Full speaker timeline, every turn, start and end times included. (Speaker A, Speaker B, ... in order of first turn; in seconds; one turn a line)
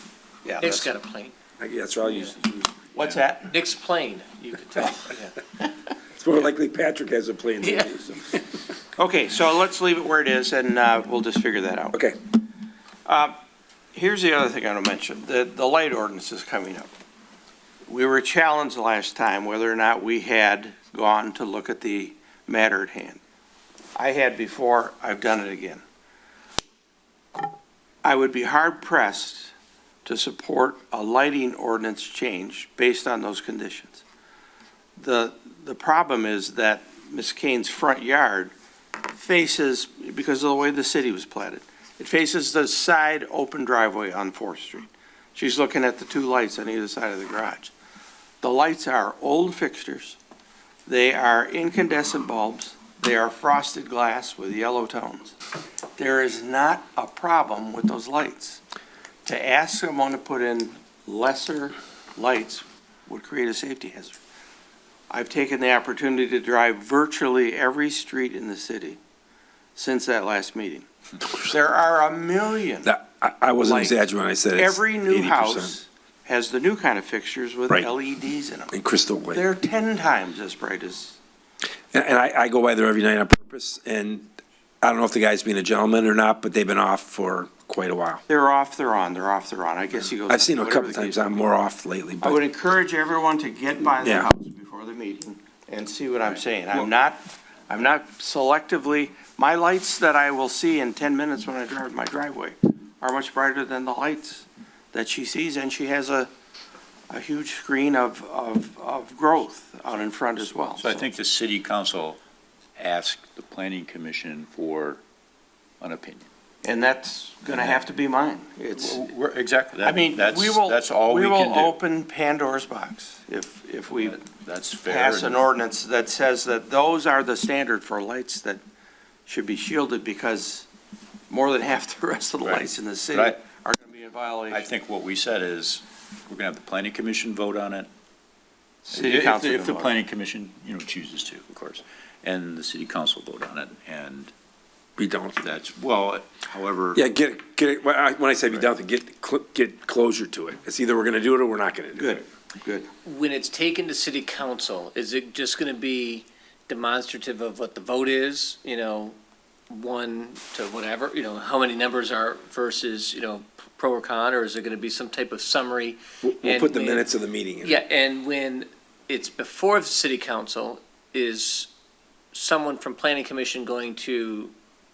Speaker A: 0.4-0.9
Speaker B: 0.6-1.3
Speaker C: 1.6-2.8
Speaker A: 2.9-3.5
Speaker B: 3.5-5.3
Speaker C: 6.1-8.4
Speaker B: 7.6-8.0
Speaker A: 8.9-12.0
Speaker A: 13.1-13.3
Speaker A: 13.9-16.9
Speaker A: 17.9-23.2
Speaker A: 23.9-25.8
Speaker A: 28.0-29.5
Speaker A: 30.0-34.0
Speaker A: 35.0-38.5
Speaker A: 39.0-47.7
Speaker A: 48.4-50.2
Speaker A: 50.9-55.3
Speaker A: 56.0-58.6
Speaker A: 59.2-64.2
Speaker A: 65.1-69.0
Speaker A: 69.7-72.9
Speaker C: 72.8-75.7
Speaker A: 73.6-74.0
Speaker A: 74.5-78.7
Speaker C: 78.7-79.4
Speaker A: 79.3-81.2
Speaker C: 81.9-84.3
Speaker C: 84.8-88.2
Speaker A: 88.3-91.2
Speaker C: 90.3-92.4
Speaker A: 92.2-106.3
Speaker C: 94.0-94.3
Speaker A: 107.1-111.0
Speaker D: 110.8-112.2
Speaker D: 112.8-115.0
Speaker D: 115.8-116.3
Speaker A: 116.6-119.0
Speaker D: 117.5-117.8
Speaker D: 118.8-121.8
Speaker A: 119.8-124.2
Speaker D: 124.0-125.4
Speaker A: 124.8-128.6
Speaker A: 129.3-130.7
Speaker A: 131.3-134.7
Speaker D: 132.4-133.4
Speaker D: 134.5-137.9
Speaker A: 138.8-139.9
Speaker D: 138.9-144.3
Speaker C: 145.0-145.4
Speaker D: 145.4-147.0
Speaker C: 146.9-152.2
Speaker A: 151.9-152.9
Speaker B: 153.0-159.2
Speaker B: 159.7-167.1
Speaker C: 166.2-167.8
Speaker B: 167.6-171.7
Speaker B: 172.3-174.5